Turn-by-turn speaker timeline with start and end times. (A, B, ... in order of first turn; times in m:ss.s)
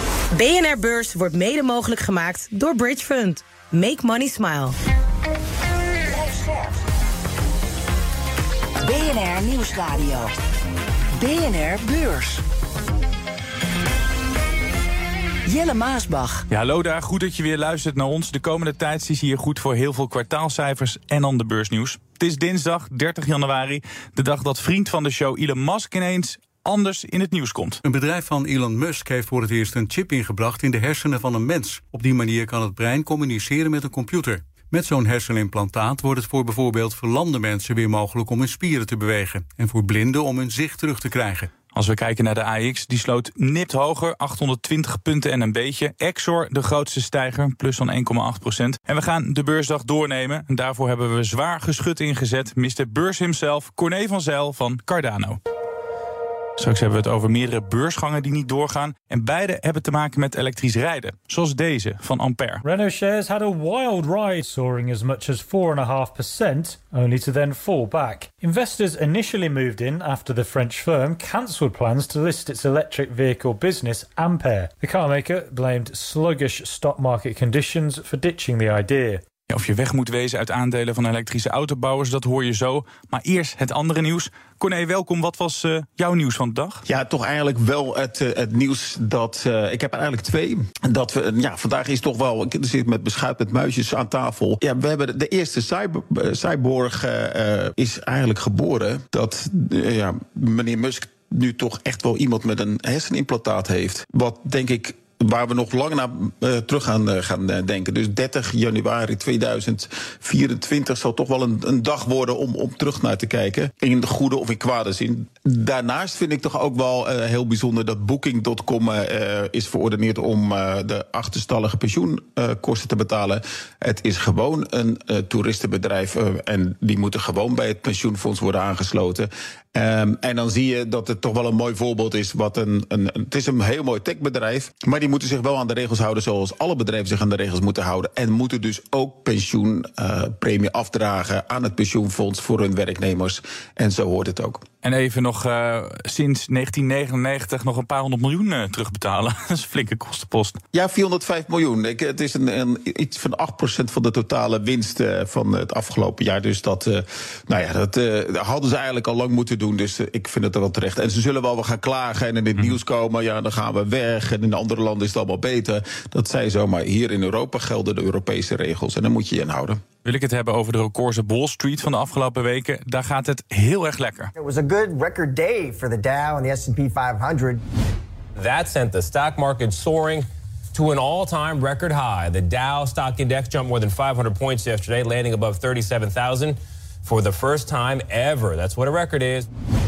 0:00.3-0:04.8 A
0:06.2-0:06.6 B
0:08.8-0:10.3 B
0:11.2-0:12.4 B
0:15.5-0:16.4 B
0:16.5-0:27.8 C
0:27.8-0:41.5 D
0:41.7-0:55.4 C
0:56.6-1:02.6 C
1:02.6-1:19.2 E
1:19.5-1:26.8 C
1:26.9-2:24.6 F
2:24.8-2:30.6 C
2:30.7-2:49.8 F
2:50.0-2:54.3 C
2:54.4-2:57.6 G
2:58.4-3:09.5 H